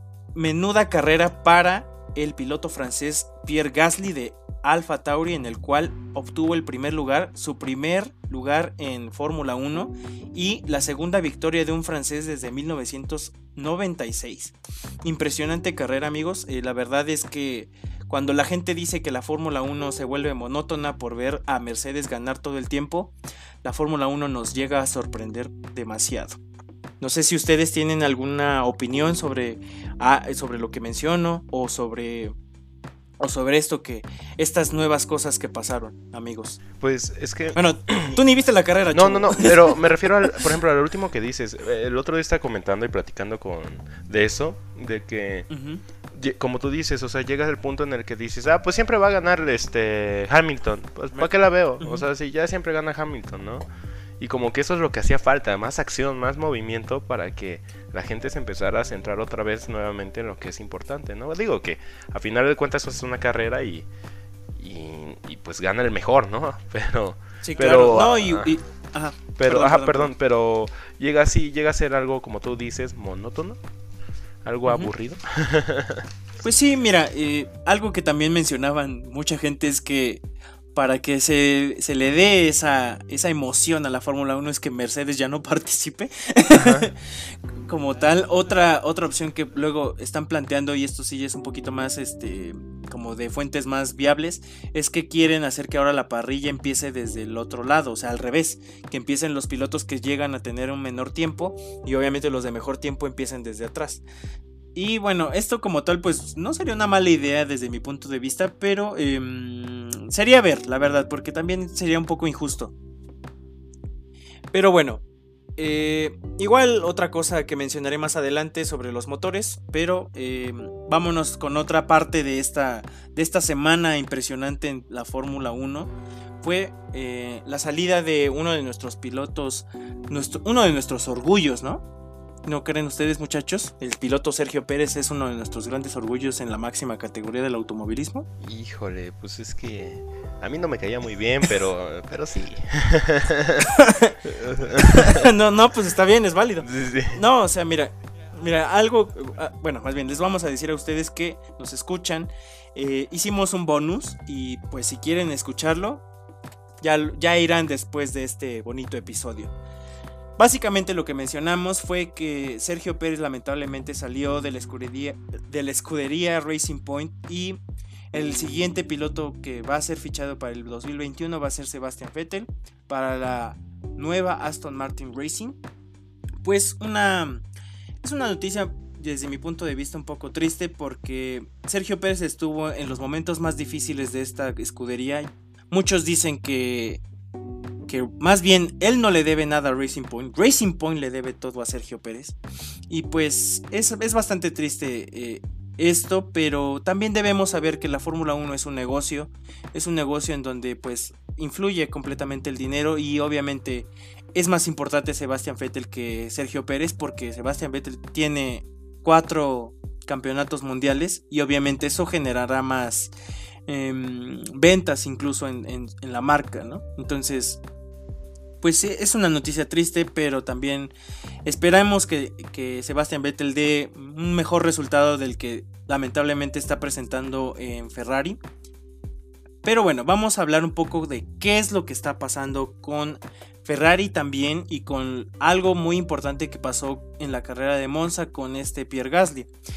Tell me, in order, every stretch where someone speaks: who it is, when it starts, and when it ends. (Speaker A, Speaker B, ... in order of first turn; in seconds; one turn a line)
Speaker A: 0.3-23.1
Speaker A: 23.6-26.4
Speaker A: 27.0-32.3
Speaker A: 33.2-36.6
Speaker B: 36.8-38.2
Speaker A: 37.5-40.4
Speaker B: 38.9-45.5
Speaker A: 45.5-45.8
Speaker B: 46.1-53.6
Speaker A: 51.1-52.0
Speaker B: 54.2-63.9
Speaker B: 64.6-68.5
Speaker A: 67.4-70.1
Speaker B: 69.4-73.6
Speaker B: 74.4-76.0
Speaker A: 76.4-80.2
Speaker A: 80.7-104.0
Speaker B: 86.5-86.9
Speaker A: 104.7-112.7
Speaker A: 114.5-115.0
Speaker A: 115.6-125.9
Speaker A: 126.4-131.8
Speaker A: 132.4-138.3
Speaker B: 138.4-143.7
Speaker A: 143.6-144.2
Speaker B: 144.2-145.2
Speaker A: 144.8-156.0
Speaker B: 146.6-147.2
Speaker A: 156.8-159.5
Speaker A: 160.4-167.6
Speaker A: 168.1-175.6
Speaker A: 176.4-177.4
Speaker A: 178.0-187.0
Speaker A: 187.9-192.4
Speaker A: 192.9-213.1
Speaker A: 213.7-217.6
Speaker A: 218.6-220.9
Speaker A: 221.4-228.4
Speaker A: 229.6-239.5